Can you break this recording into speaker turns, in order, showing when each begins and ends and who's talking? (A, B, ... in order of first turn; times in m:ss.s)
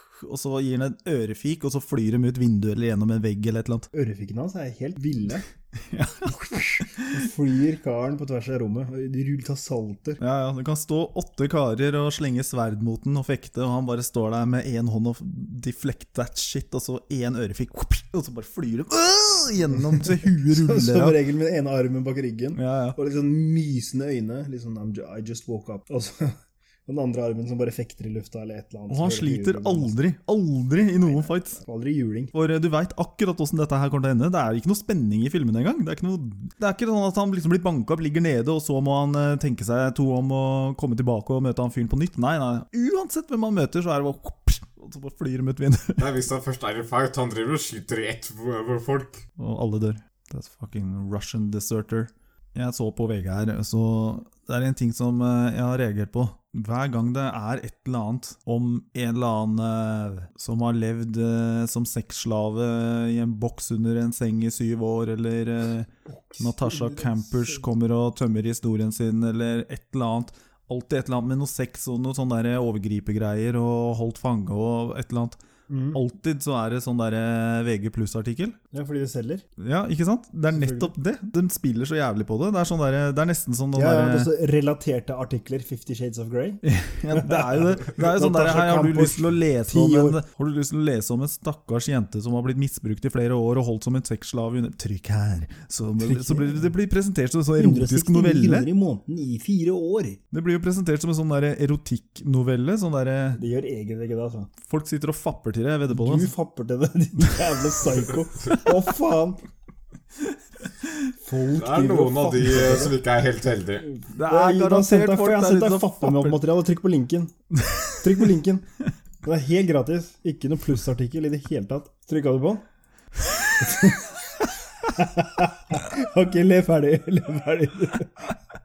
0:00.2-0:03.9 A
0:03.9-0:05.5 B
0:05.8-0:07.2 A
0:06.6-0:10.2 B
0:10.2-0:21.2 A
0:19.9-0:30.0 B
0:22.6-0:23.0 A
0:28.9-0:31.6 A
0:31.0-0:32.3 B
0:32.3-0:46.1 A
0:46.0-0:49.2 C
0:49.4-1:15.4 A
1:06.1-1:07.6 B
1:15.7-1:16.0 B
1:15.9-1:18.6 A
1:18.7-1:19.5 B
1:19.6-1:24.3 A
1:20.5-1:20.9 B
1:23.7-1:26.6 B
1:26.6-1:38.7 A
1:27.1-1:30.2 B
1:36.0-1:36.7 B
1:37.6-1:40.2 B
1:40.3-1:43.4 A
1:43.4-1:44.5 B
1:44.6-1:46.3 A
1:45.9-1:49.4 B
1:51.2-1:53.0 B
1:51.6-1:53.9 C
1:53.8-1:57.3 B
1:54.1-1:56.4 A
1:57.6-1:58.0 A
1:58.0-1:58.7 B
1:59.2-2:02.6 B
2:03.6-2:04.1 B
2:04.9-2:08.3 B